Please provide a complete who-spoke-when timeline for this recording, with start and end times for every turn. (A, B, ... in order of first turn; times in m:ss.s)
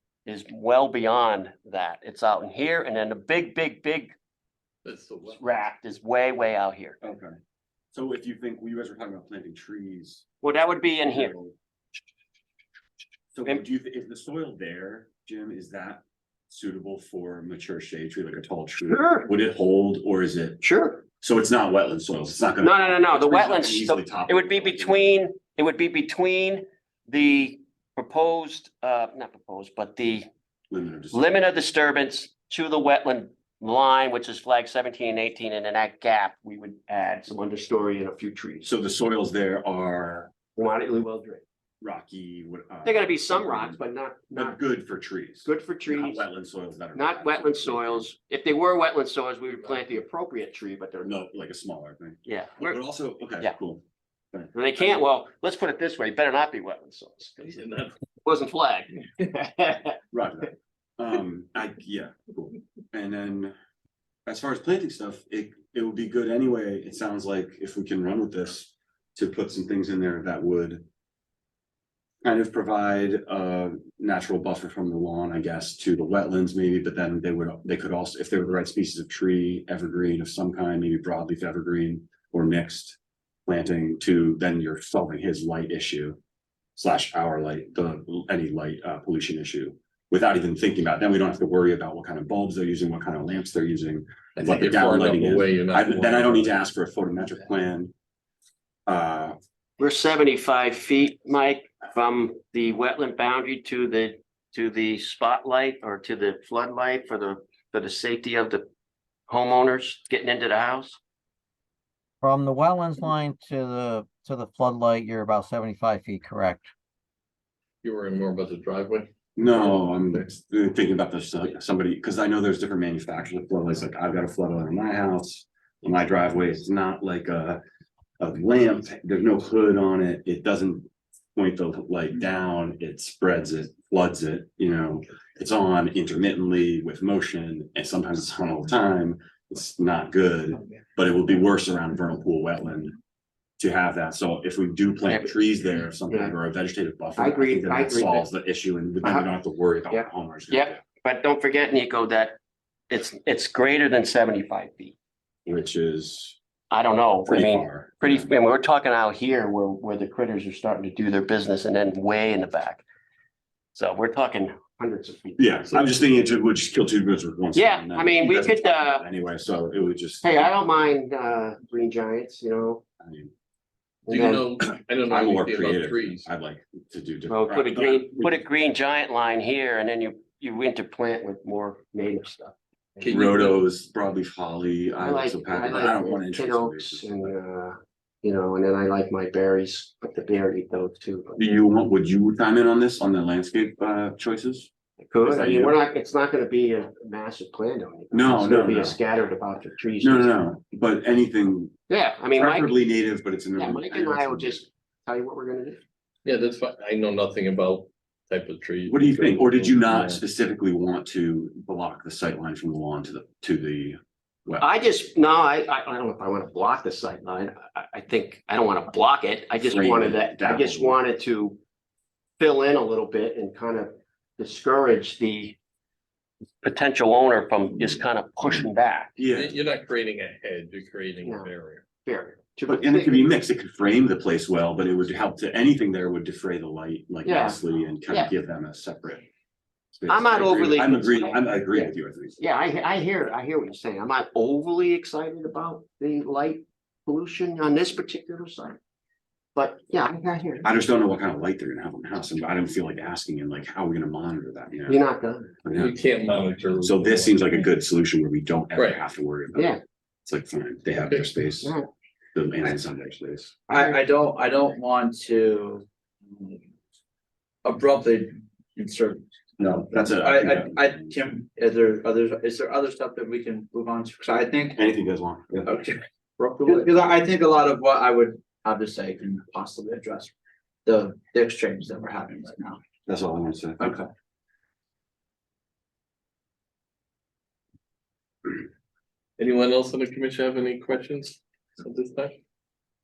0:00.2-0:04.1 A
0:04.8-0:05.4 B
0:05.3-0:07.0 A
0:07.0-0:07.3 C
0:07.9-0:10.2 C
0:10.4-0:11.3 A
0:11.1-0:11.6 C
0:13.3-0:20.6 C
0:18.9-0:19.3 A
0:20.6-0:21.0 A
0:21.2-0:25.2 C
0:22.6-0:30.3 A
0:30.7-0:31.3 C
0:31.1-0:38.7 A
0:38.6-0:40.3 C
0:40.6-0:41.4 A
0:41.8-0:43.8 C
0:42.8-0:44.6 A
0:44.3-0:48.1 C
0:45.4-0:46.2 A
0:46.9-0:51.2 A
0:51.0-0:55.0 C
0:52.2-0:52.8 A
0:54.5-1:00.0 A
0:57.4-0:57.9 B
1:00.1-1:03.5 C
1:04.2-1:10.8 C
1:12.2-1:26.2 C
1:26.8-1:37.9 C
1:34.4-1:36.5 B
1:38.9-1:39.4 C
1:39.8-1:48.6 A
1:49.3-1:51.0 A
1:52.2-1:56.7 D
1:57.8-2:00.2 B
1:59.4-2:07.6 C
2:08.2-2:22.9 C
2:23.6-2:30.8 C
2:26.1-2:26.3 A
2:27.2-2:28.2 A
2:29.0-2:29.3 A
2:29.9-2:32.4 A
2:32.9-2:35.0 A
2:35.4-2:36.4 C
2:36.7-2:42.8 A
2:37.2-2:38.3 C
2:43.7-2:45.5 A
2:45.4-2:50.3 C
2:47.5-2:49.0 A
2:50.2-2:52.8 A
2:53.0-2:53.3 C
2:54.1-2:54.4 A
2:54.1-2:56.3 B
2:54.6-2:58.3 C
2:57.3-3:03.0 A
3:03.0-3:03.6 B
3:03.0-3:07.3 C
3:05.0-3:11.4 A
3:11.4-3:14.7 C
3:15.0-3:20.3 A
3:15.2-3:15.8 C
3:18.1-3:19.0 C
3:20.0-3:21.7 C
3:21.9-3:22.7 A
3:22.3-3:24.6 C
3:23.6-3:25.8 A
3:26.2-3:30.2 B
3:28.9-3:34.6 C
3:34.6-3:41.6 A
3:39.6-3:41.0 C
3:42.4-3:45.6 A
3:46.6-3:49.1 A
3:49.2-3:49.5 C
3:49.3-3:51.8 B
3:51.2-3:51.5 A
3:52.0-3:53.3 A
3:52.7-3:59.3 C
3:57.2-3:58.3 A
3:59.9-4:02.4 C
4:00.1-4:08.8 A
4:09.5-4:10.7 A
4:10.6-4:15.0 C
4:14.9-4:15.5 A
4:15.6-4:16.0 C
4:15.7-4:17.4 B
4:16.8-4:19.7 C
4:18.7-4:19.0 B
4:19.5-4:19.8 A
4:20.2-4:21.7 C
4:22.3-4:23.6 C
4:23.7-4:26.6 E
4:27.6-4:29.2 E
4:29.6-4:31.2 C
4:30.0-4:34.8 E
4:34.7-4:35.7 C
4:35.6-4:40.3 E
4:40.8-4:42.8 E
4:43.1-4:44.0 C
4:49.4-4:52.4 B